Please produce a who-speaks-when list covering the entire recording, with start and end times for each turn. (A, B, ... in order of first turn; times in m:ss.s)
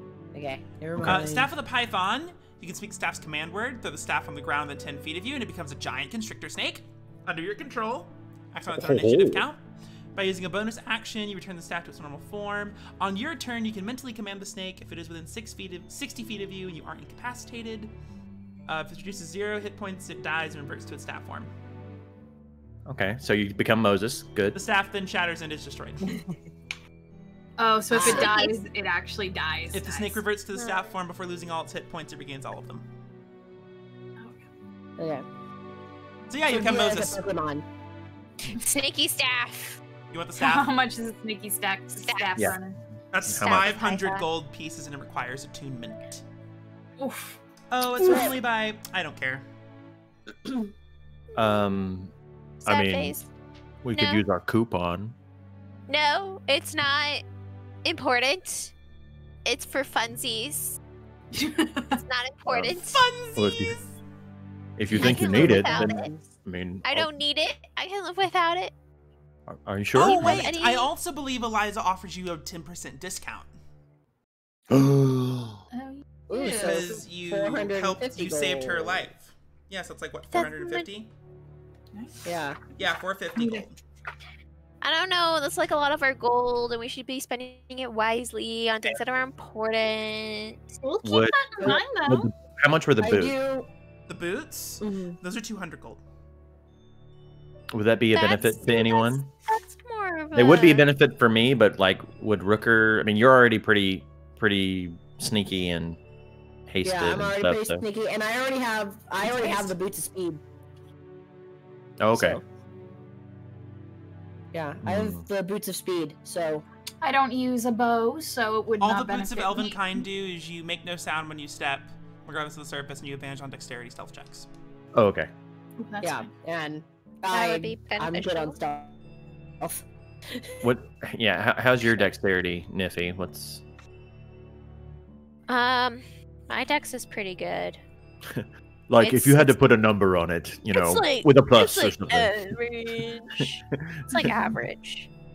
0:00.3-0:01.5 A
0:01.0-0:01.2 B
0:01.0-0:09.6 C
0:08.7-0:09.4 B
0:10.2-0:17.9 C
0:18.7-0:21.5 C
0:22.8-0:24.6 B
0:24.5-0:26.2 C
0:27.6-0:30.2 D
0:27.9-0:28.3 A
0:27.9-0:28.6 E
0:29.7-0:32.8 C
0:34.2-0:34.4 D
0:35.0-0:35.2 A
0:36.3-0:37.2 C
0:36.5-0:37.6 A
0:38.4-0:39.8 E
0:40.1-0:40.7 C
0:40.4-0:42.8 D
0:42.0-0:42.4 E
0:43.1-0:46.2 C
0:43.3-0:43.7 B
0:43.3-0:44.3 E
0:47.0-0:47.4 D
0:47.7-0:49.4 C
0:48.0-0:48.3 A
0:50.4-0:50.7 A
0:51.3-0:51.6 E
0:51.4-0:52.1 B
0:52.6-0:53.2 B
0:52.6-0:53.3 E
0:53.8-0:55.1 B
0:53.9-0:54.2 E
0:55.9-0:57.2 E
0:57.8-0:58.7 E
0:59.4-1:00.8 E
1:01.3-1:02.0 D
1:02.0-1:03.0 E
1:02.5-1:02.7 B
1:02.7-1:04.0 C
1:03.4-1:03.8 B
1:04.8-1:07.1 B
1:04.9-1:06.1 E
1:05.2-1:06.2 A
1:06.8-1:08.7 E
1:09.5-1:10.4 B
1:09.9-1:13.5 C
1:10.0-1:10.9 E
1:14.7-1:15.6 B
1:15.7-1:16.9 D
1:16.3-1:19.0 A
1:16.4-1:21.1 C
1:20.3-1:20.9 E
1:21.9-1:22.2 D
1:22.2-1:22.6 A
1:22.8-1:23.8 C
1:23.4-1:23.6 D
1:24.8-1:30.8 E
1:30.8-1:32.3 D
1:31.0-1:33.3 B
1:33.0-1:33.7 A
1:34.1-1:36.0 C
1:34.8-1:35.2 A
1:37.7-1:39.3 B
1:38.1-1:40.9 E
1:40.3-1:46.0 B
1:46.7-1:47.8 B
1:46.8-1:50.4 A
1:49.2-1:49.7 D
1:52.0-1:52.4 B
1:52.1-1:52.4 A
1:54.5-1:56.6 A
1:54.8-1:55.2 B
1:57.0-2:00.0 D
1:58.8-2:04.5 C
2:04.9-2:05.3 B
2:05.8-2:06.3 D
2:06.0-2:08.9 A
2:07.3-2:08.6 E
2:09.6-2:10.5 A
2:10.6-2:13.6 B
2:15.5-2:17.8 E
2:18.3-2:22.4 B
2:19.0-2:19.6 E
2:20.7-2:25.1 E
2:23.7-2:24.3 B